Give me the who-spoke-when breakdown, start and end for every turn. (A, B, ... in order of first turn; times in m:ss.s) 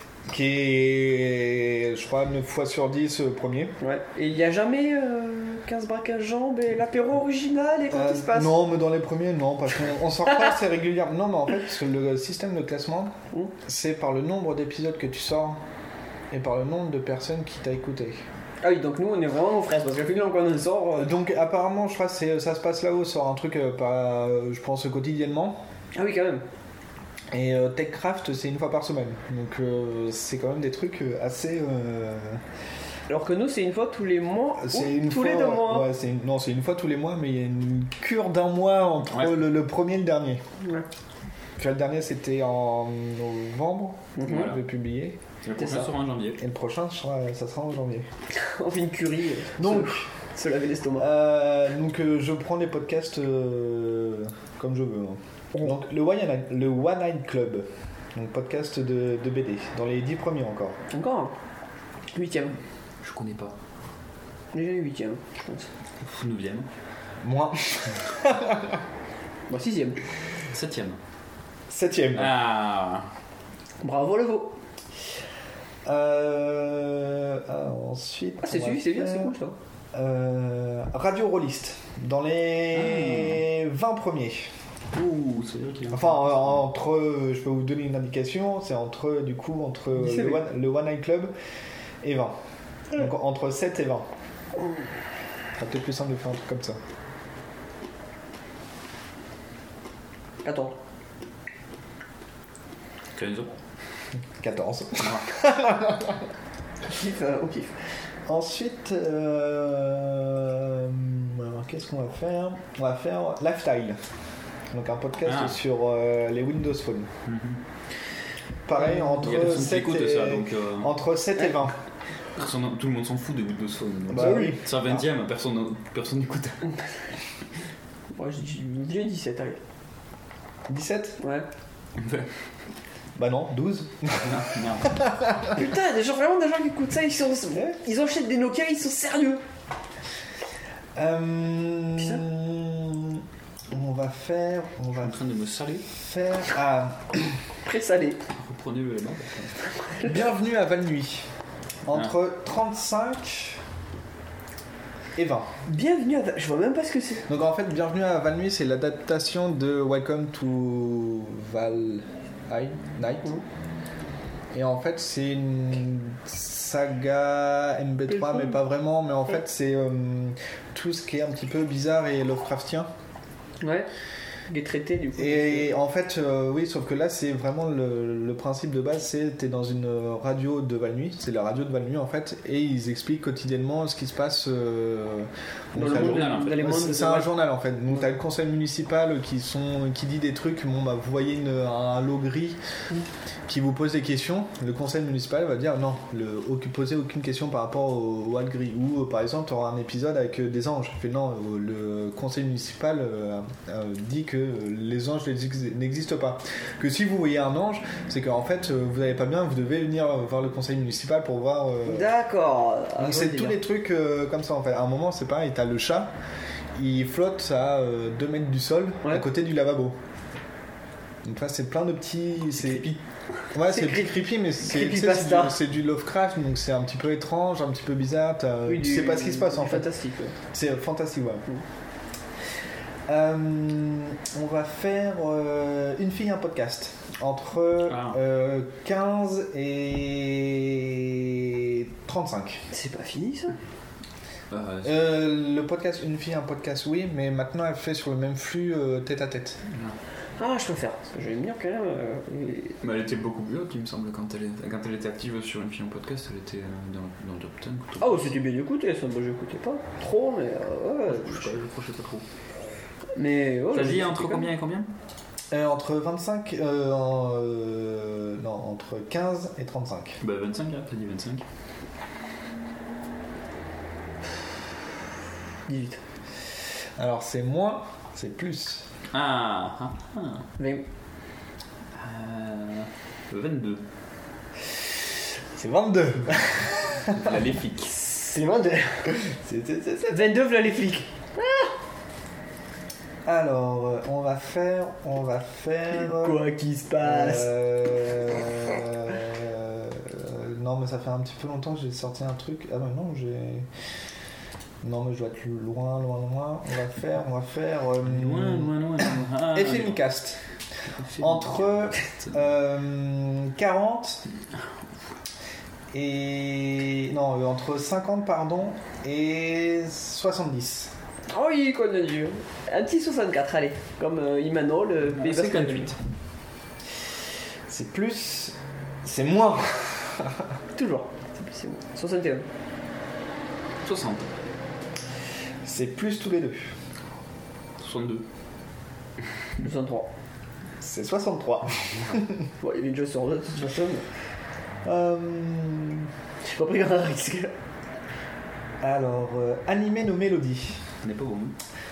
0:00.3-0:03.7 A
0:03.8-0:08.6 B
0:07.9-0:15.6 A
0:16.3-0:18.2 A
0:18.6-0:21.1 B
0:21.0-0:25.6 A
0:25.9-0:26.4 B
0:27.3-0:32.4 A
0:33.1-0:35.9 B
0:34.6-0:40.4 A
0:39.1-0:39.4 C
0:40.6-0:40.9 B
0:41.6-0:45.2 A
0:44.2-0:44.5 B
0:44.2-0:44.6 C
0:45.4-0:46.4 C
0:45.6-0:45.9 B
0:46.4-0:48.1 A
0:48.3-0:51.1 B
0:49.6-0:50.1 A
0:51.0-1:00.8 A
1:00.9-1:01.3 B
1:02.1-1:02.6 B
1:03.0-1:03.6 C
1:04.5-1:05.7 B
1:06.0-1:06.7 C
1:07.2-1:08.8 A
1:09.5-1:10.0 B
1:10.5-1:11.0 C
1:11.7-1:12.3 A
1:12.1-1:13.1 C
1:13.8-1:14.6 B
1:15.8-1:19.3 A
1:18.4-1:19.6 B
1:19.9-1:24.5 A
1:22.7-1:23.4 C
1:24.9-1:26.6 C
1:25.9-1:31.3 A
1:30.0-1:30.4 B
1:32.0-1:32.4 A
1:32.9-1:34.1 A
1:35.6-1:36.8 A
1:40.4-1:40.8 B
1:43.2-1:43.5 C
1:44.4-1:46.3 A
1:45.0-1:45.3 C
1:46.9-1:47.7 B
1:48.3-1:54.0 A
1:54.7-1:57.1 A
1:55.3-1:55.6 C
1:57.3-1:57.6 C
1:58.7-2:01.8 A
1:58.8-1:59.3 B
1:59.2-2:01.0 C
2:02.4-2:06.8 C
2:04.1-2:05.0 A
2:04.2-2:04.6 B
2:08.1-2:09.6 B
2:10.7-2:11.2 A
2:11.2-2:11.5 B
2:12.0-2:12.3 C
2:13.2-2:15.5 A
2:14.1-2:15.0 C
2:15.5-2:19.4 B
2:21.0-2:25.2 A
2:25.0-2:25.9 C
2:25.9-2:27.3 A
2:27.6-2:28.2 B
2:28.3-2:29.6 C
2:30.0-2:31.3 A
2:31.9-2:33.6 A
2:35.2-2:35.5 A
2:35.7-2:37.3 B
2:37.3-2:43.4 A
2:44.5-2:52.9 A
2:48.1-2:48.6 B
2:53.6-2:53.9 B
2:54.5-2:55.7 B
2:55.2-3:12.6 A
3:05.8-3:07.4 B
3:05.8-3:06.8 C
3:13.5-3:32.1 A
3:31.9-3:33.6 B
3:33.0-3:36.1 A
3:36.8-3:40.0 A
3:41.2-3:42.9 A
3:42.6-3:43.0 C
3:43.5-3:49.9 A
3:43.6-3:45.6 B
3:48.7-3:50.4 B
3:50.5-3:51.4 A
3:53.1-4:02.6 A
3:57.9-3:58.2 C
4:02.7-4:03.6 B
4:04.5-4:05.0 C
4:04.8-4:09.6 A
4:09.7-4:10.0 C
4:10.4-4:12.8 B
4:12.8-4:18.3 C
4:18.0-4:21.5 B
4:21.1-4:22.2 C
4:23.2-4:24.5 B
4:23.7-4:24.9 C
4:25.5-4:30.2 A
4:30.2-4:31.4 C
4:35.7-4:36.0 B
4:37.0-4:38.9 A
4:39.1-4:40.5 C
4:40.6-4:40.8 B
4:41.9-4:43.8 C
4:45.6-4:47.2 A
4:47.1-4:47.9 C
4:47.9-4:49.2 B
4:49.1-4:50.3 A
4:50.1-4:51.7 B
4:53.2-4:56.5 A
4:55.9-4:57.6 B
4:57.0-5:03.7 A
5:04.8-5:10.4 A
5:08.0-5:10.1 C
5:11.0-5:12.4 C
5:11.2-5:14.2 A
5:15.9-5:20.9 A
5:21.3-5:25.9 B
5:25.2-5:26.0 C
5:27.7-5:30.5 A
5:30.8-5:32.5 B
5:33.8-5:34.3 C
5:35.6-5:36.7 A
5:37.8-5:38.2 C
5:39.6-5:40.1 B
5:40.8-5:42.4 A
5:42.6-5:44.1 B
5:44.8-5:46.1 A
5:46.4-5:47.5 B
5:48.8-5:50.8 A
5:51.0-5:51.6 C